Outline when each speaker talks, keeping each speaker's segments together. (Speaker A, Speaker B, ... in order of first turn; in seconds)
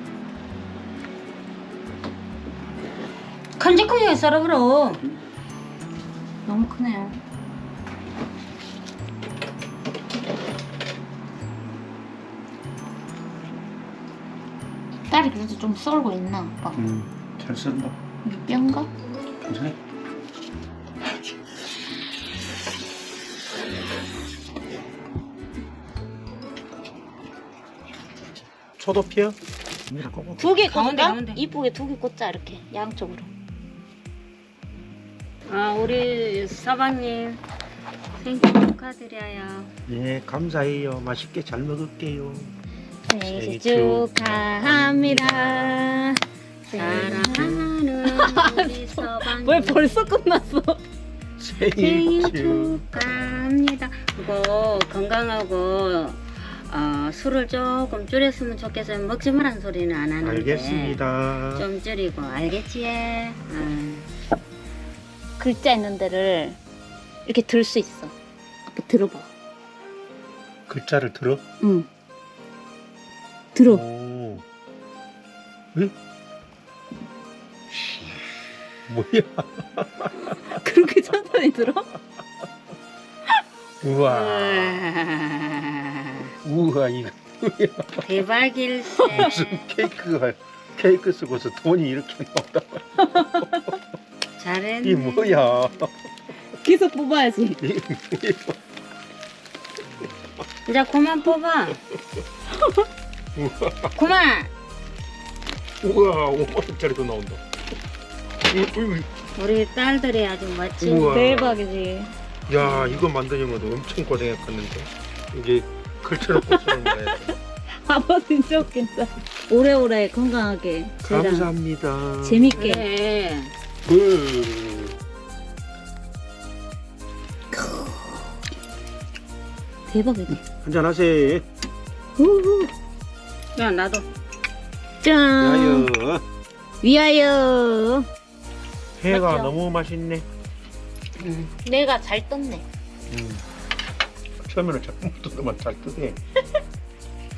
Speaker A: 3.6-5.0, 30.7-31.4, 35.5-37.4, 38.2-39.7, 46.7-50.1, 51.7-64.1, 84.0-86.3, 88.0-89.7, 94.4-95.4, 100.7-101.8, 104.0-104.5, 109.4-111.2, 112.8-113.0, 122.6-123.5, 133.6-134.1
Speaker B: 6.5-7.2, 15.1-16.8, 18.2-18.9, 30.4-33.3, 43.1-50.8, 65.4-66.6, 67.3-68.1, 68.7-69.3, 71.6-71.9, 73.5-73.8, 80.5-81.9, 89.0-89.3, 93.0-93.7, 96.6-97.6, 111.0-112.1, 116.3-117.2, 117.8-121.5, 122.2-122.9, 127.5-128.1, 129.9-130.4, 132.2-132.7, 135.0-135.9, 136.8-138.1, 139.1-139.6, 141.3-142.6
Speaker C: 16.7-18.0, 19.4-19.8, 28.8-29.4, 29.9-30.6, 39.9-42.5, 43.2-46.0, 51.4-52.9, 60.2-61.7, 70.7-71.4, 73.7-74.4, 78.9-80.5, 83.8-84.8, 86.4-88.1, 89.1-93.5, 94.8-95.9, 97.6-98.6, 103.3-104.0, 105.8-107.4, 108.5-109.1, 110.8-111.6, 112.5-117.4, 121.0-122.7, 123.9-125.0, 130.3-131.5, 135.4-136.2, 139.0-140.3, 143.1-143.4, 144.4-146.2